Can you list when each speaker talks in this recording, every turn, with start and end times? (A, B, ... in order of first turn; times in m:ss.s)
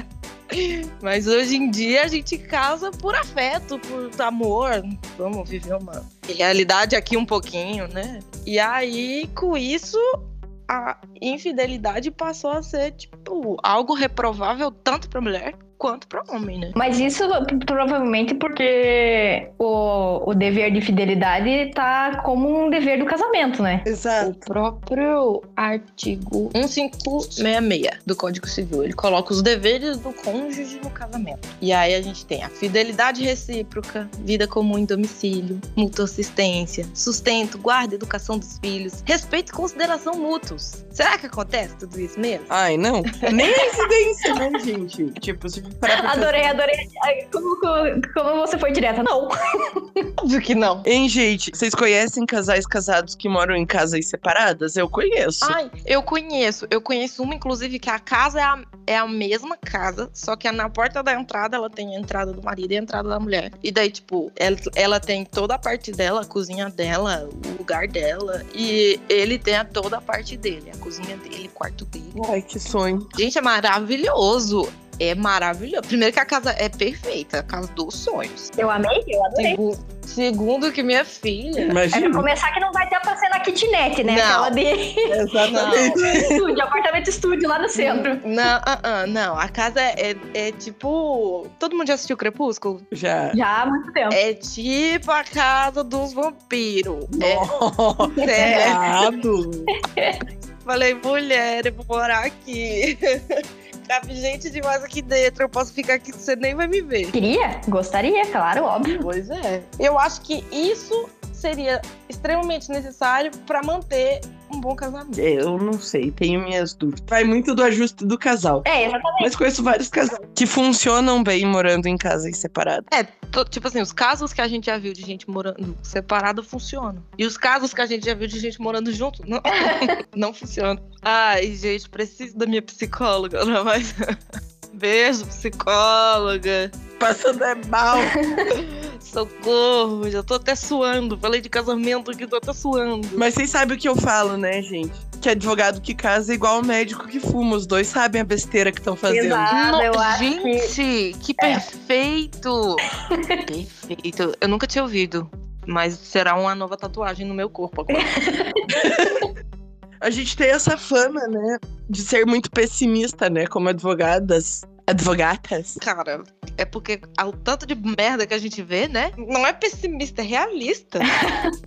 0:00.5-0:10.2 A
0:10.7-0:16.8 A
0:16.8-0:23.9 B
0:23.8-0:24.3 C
0:24.2-0:42.6 A
0:42.5-0:46.6 C
0:43.1-0:43.7 A
0:45.9-0:50.0 B
0:50.2-0:50.8 A
0:50.8-0:55.6 C
0:55.4-1:12.2 A
1:12.1-1:13.1 C
1:13.1-1:18.5 A
1:18.6-1:19.6 B
1:19.3-1:21.8 A
1:21.6-1:22.3 C
1:21.9-1:28.3 B
1:24.0-1:24.6 A
1:25.1-1:26.4 C
1:25.5-1:26.0 A
1:27.7-1:32.8 A
1:32.9-1:33.4 C
1:33.3-1:34.2 B
1:34.1-1:37.5 A
1:37.1-1:39.7 C
1:38.1-1:38.8 A
1:38.2-1:38.9 B
1:39.7-1:40.2 B
1:40.6-1:47.1 A
1:47.1-1:49.0 B
1:49.0-1:55.2 A
1:55.1-2:02.9 C
1:58.6-1:59.3 B
2:02.9-2:14.0 A
2:14.7-2:16.7 A
2:17.0-2:18.1 C
2:18.0-2:18.4 B
2:18.5-2:23.2 A
2:23.2-2:29.5 C
2:29.1-2:30.7 B
2:29.5-2:32.8 A
2:33.1-2:33.4 B
2:33.4-2:38.4 A
2:37.9-2:38.6 B
2:38.7-2:39.0 C
2:40.0-2:45.8 C
2:45.8-2:51.1 A
2:51.0-2:51.5 B